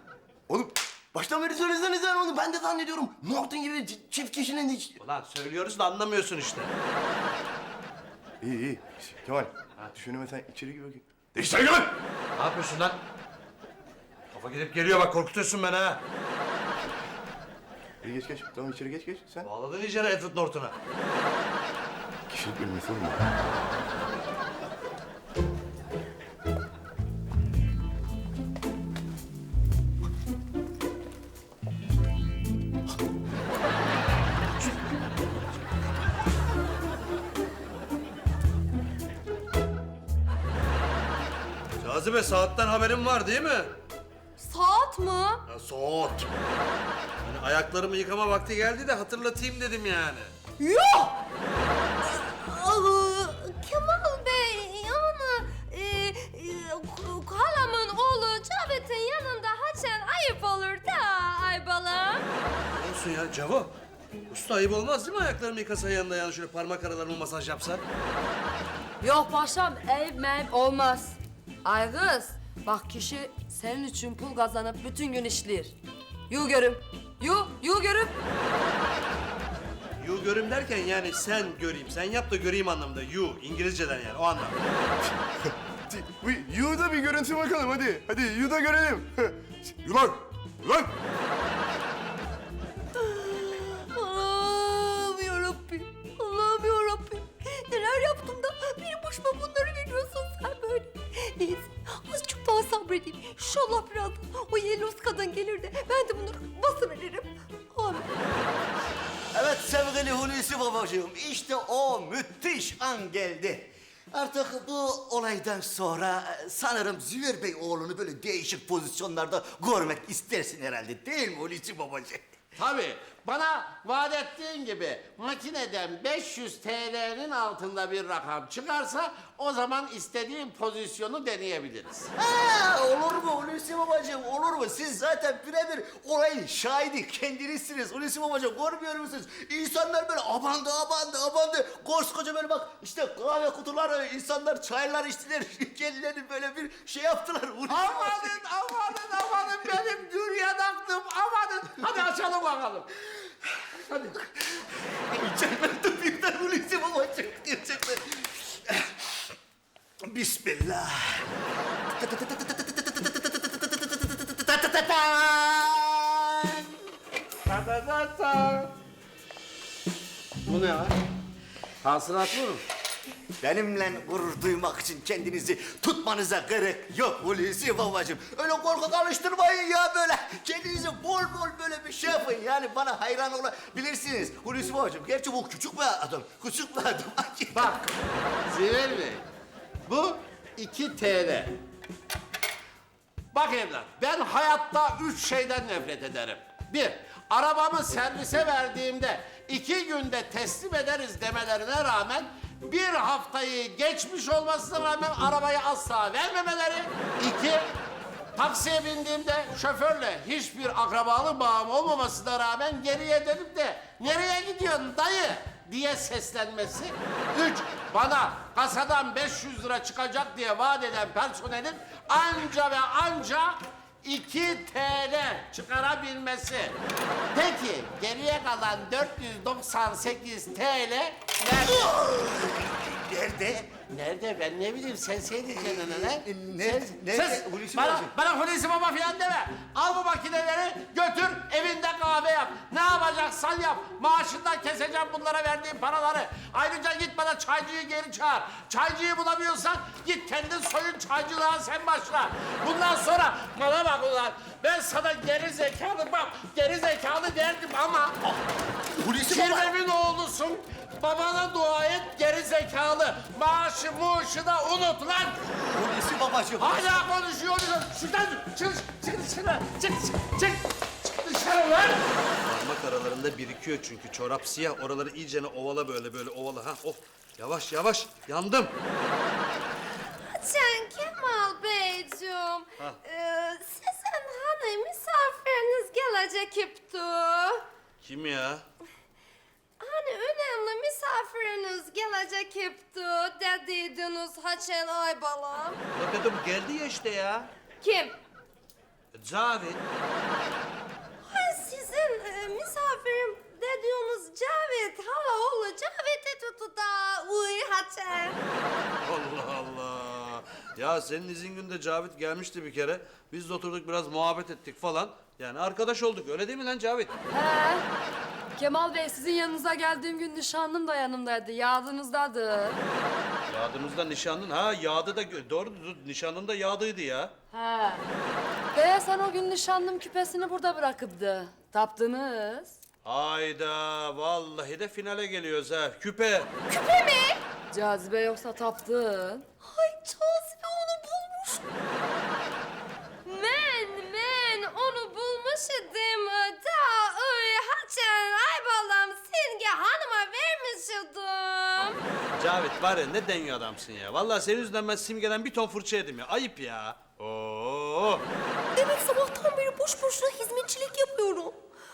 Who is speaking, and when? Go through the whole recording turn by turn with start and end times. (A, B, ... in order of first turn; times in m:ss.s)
0:00.5-0:05.0 A
0:05.0-0:06.7 B
0:08.4-0:11.9 A
0:12.3-0:13.0 B
0:14.3-0:16.0 B
0:18.0-0:19.5 A
0:19.4-0:20.8 B
0:22.3-0:23.3 A
0:41.8-0:43.7 B
0:44.4-0:45.4 C
0:45.5-0:46.3 B
0:47.2-0:50.3 B
0:50.6-0:51.1 C
0:52.0-1:02.3 C
1:02.7-1:03.7 B
1:04.3-1:07.8 B
1:09.0-1:15.7 D
1:16.3-1:18.1 D
1:20.0-1:24.7 B
1:25.1-1:30.9 A
1:32.9-1:48.2 C
1:49.3-2:02.2 E
2:02.6-2:12.1 F
2:12.2-2:28.4 E
2:27.7-2:32.9 F
2:34.2-2:39.1 E
2:40.0-2:41.3 E
2:41.9-2:46.7 E
2:47.5-2:48.7 F
2:50.4-2:51.0 F
2:51.8-2:52.6 F
2:53.4-3:07.8 E
3:07.5-3:07.9 F
3:08.4-3:09.3 F
3:09.9-3:11.5 F
3:13.3-3:27.7 F
3:28.4-3:46.8 F
3:47.3-3:51.9 F
3:51.6-3:53.8 E
3:53.8-4:18.2 F
3:55.5-3:58.1 E
4:19.0-4:19.7 E
4:19.2-4:25.4 F
4:25.5-4:27.0 E
4:26.6-4:32.0 F
4:32.4-4:38.7 B
4:40.3-4:47.6 C
4:48.0-4:48.6 B
4:49.8-4:55.8 C
4:55.9-4:57.5 B
4:57.8-4:58.2 C
4:59.1-4:59.8 B
5:01.3-5:08.4 C
5:09.0-5:17.1 B
5:17.3-5:17.8 D
5:18.6-5:22.8 D
5:23.5-5:27.3 B
5:27.5-5:28.0 D
5:28.7-5:32.7 D
5:33.0-5:36.5 B
5:36.7-5:37.6 C
5:37.7-5:39.4 D
5:39.6-5:41.6 C
5:43.2-5:52.0 C
5:52.3-5:58.2 B
5:58.7-6:01.6 C